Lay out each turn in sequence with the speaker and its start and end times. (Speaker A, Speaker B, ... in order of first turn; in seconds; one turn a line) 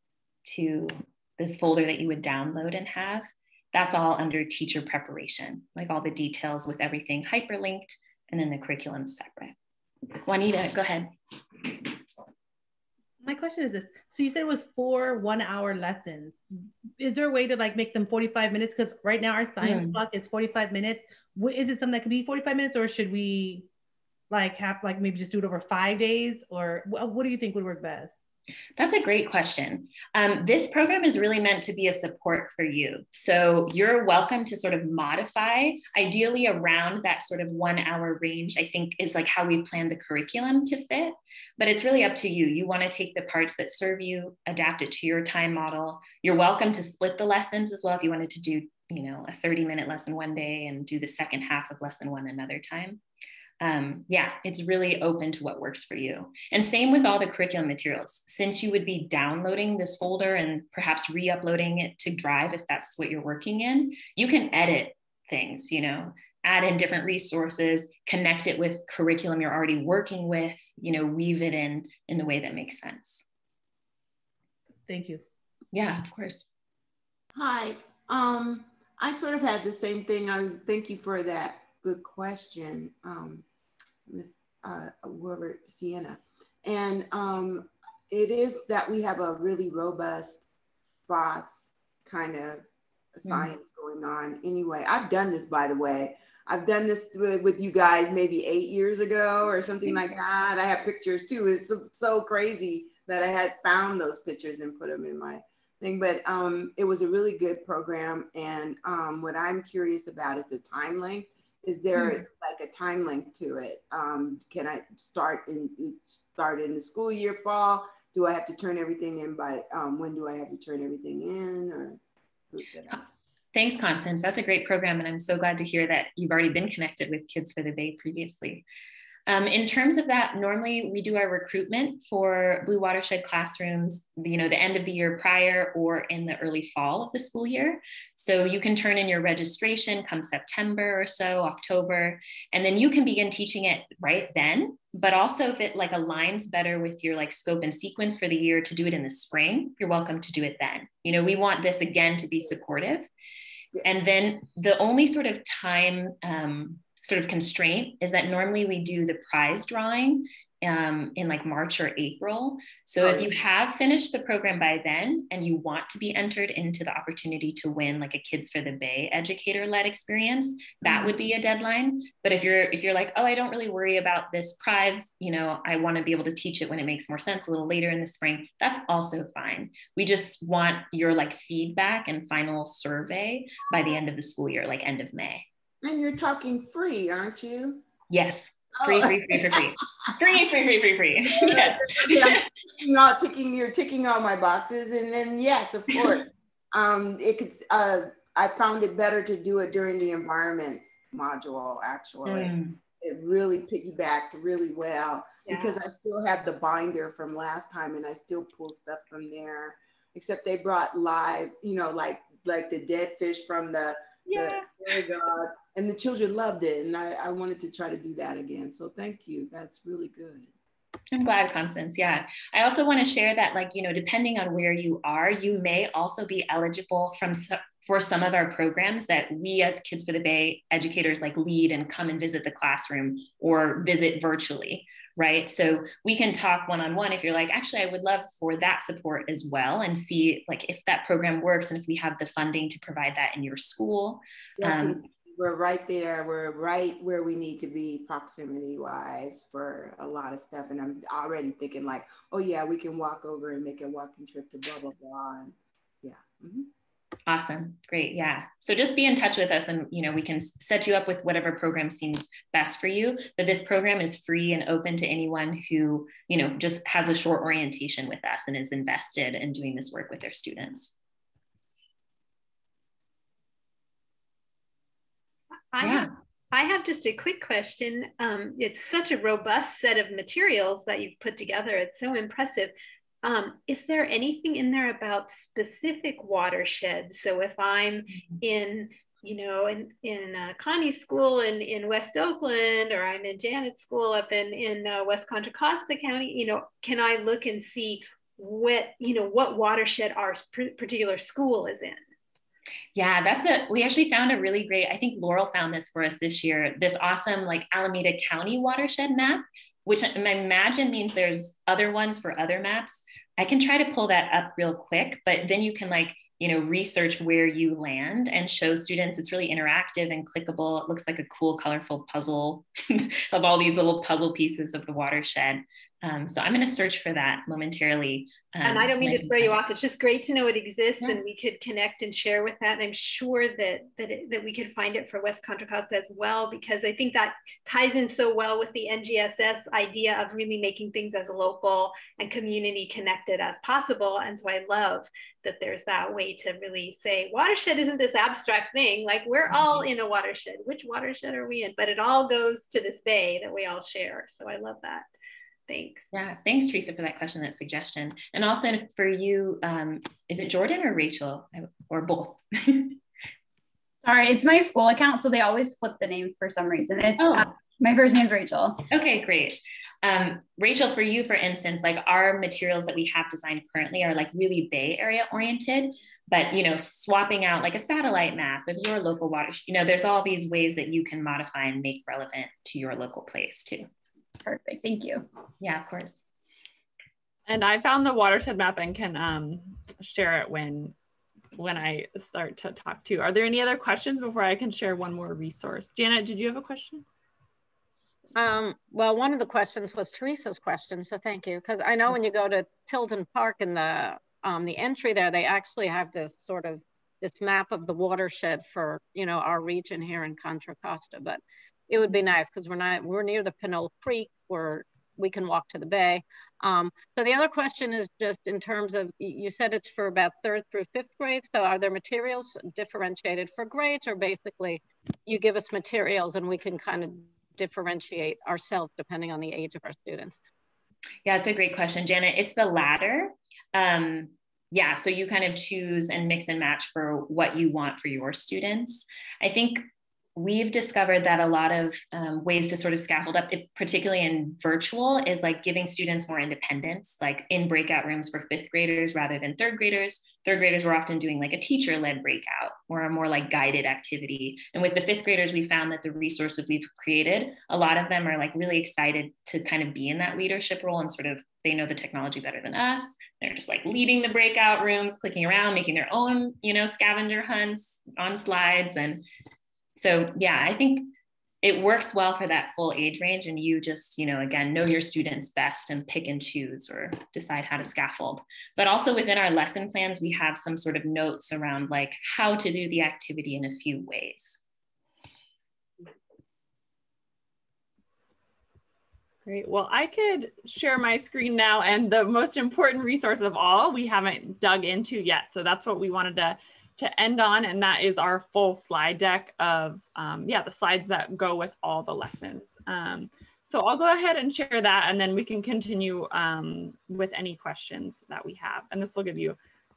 Speaker A: 0.5-9.6
Speaker A: 10.2-11.9
Speaker B: 13.2-16.4
Speaker B: 17.0-23.7
Speaker A: 19.6-20.0
Speaker B: 24.3-28.2
Speaker A: 28.8-53.0
Speaker A: 53.6-73.2
Speaker B: 74.9-75.2
Speaker A: 75.7-76.5
Speaker C: 77.3-83.4
Speaker C: 84.1-90.5
Speaker C: 91.1-122.0
Speaker A: 93.2-93.5
Speaker C: 122.5-123.0
Speaker A: 123.5-128.7
Speaker A: 129.3-153.1
Speaker A: 153.8-185.5
Speaker C: 163.0-163.3
Speaker C: 185.8-187.8
Speaker A: 188.1-192.4
Speaker C: 188.8-189.7
Speaker C: 191.3-220.5
Speaker A: 202.2-202.8
Speaker D: 205.5-205.8
Speaker D: 214.3-214.7
Speaker A: 221.1-245.0
Speaker C: 244.6-256.7
Speaker A: 257.3-271.0
Speaker D: 275.7-302.0
Speaker A: 275.8-276.1
Speaker A: 302.9-329.6
Speaker D: 328.6-355.1
Speaker A: 349.5-349.9
Speaker D: 355.7-356.1
Speaker A: 356.1-363.0
Speaker E: 364.0-368.9
Speaker A: 367.2-367.5
Speaker A: 368.9-383.9
Speaker E: 384.4-385.3
Speaker A: 385.6-386.2
Speaker F: 387.5-390.9
Speaker F: 391.6-397.0
Speaker G: 398.4-430.4
Speaker A: 431.2-439.8
Speaker A: 440.4-469.3
Speaker A: 470.0-471.1
Speaker A: 471.6-484.6
Speaker F: 489.4-509.6